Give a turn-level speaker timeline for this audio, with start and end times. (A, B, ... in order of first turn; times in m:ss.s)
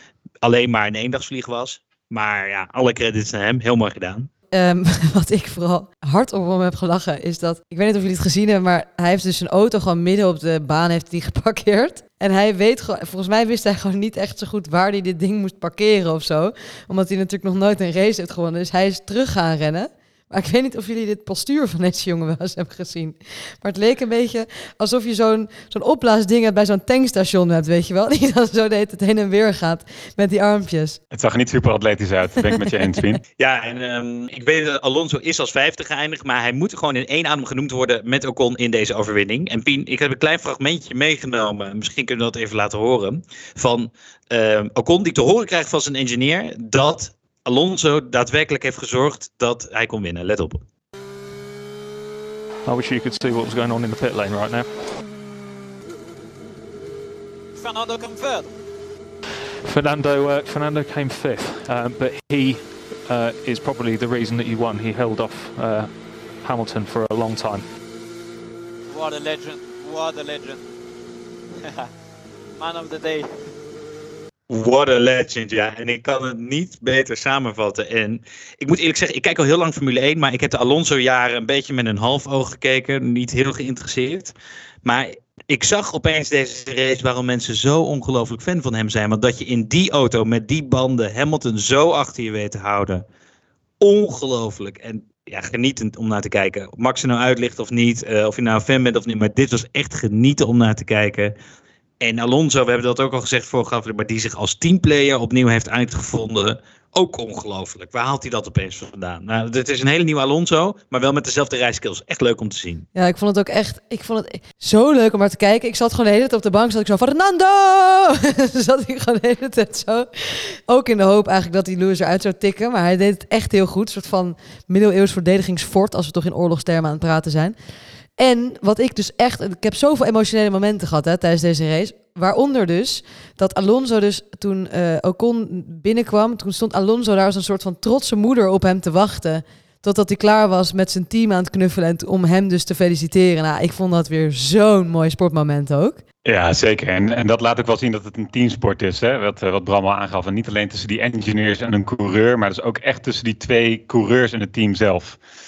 0:00.4-0:04.3 A
0:04.5-0:31.0 B
0:31.1-0:33.2 C
0:33.4-0:50.6 A
0:52.7-0:54.7 D
0:57.6-0:58.5 E
0:59.6-1:05.9 D
1:06.4-1:07.7 D
1:08.9-1:10.6 E
1:12.6-1:13.3 E
1:14.5-1:24.3 A
1:24.8-1:33.0 A
1:33.8-1:41.3 A
1:42.0-1:52.9 A
1:53.0-2:07.6 B
2:08.2-2:26.0 B
2:26.2-2:35.2 C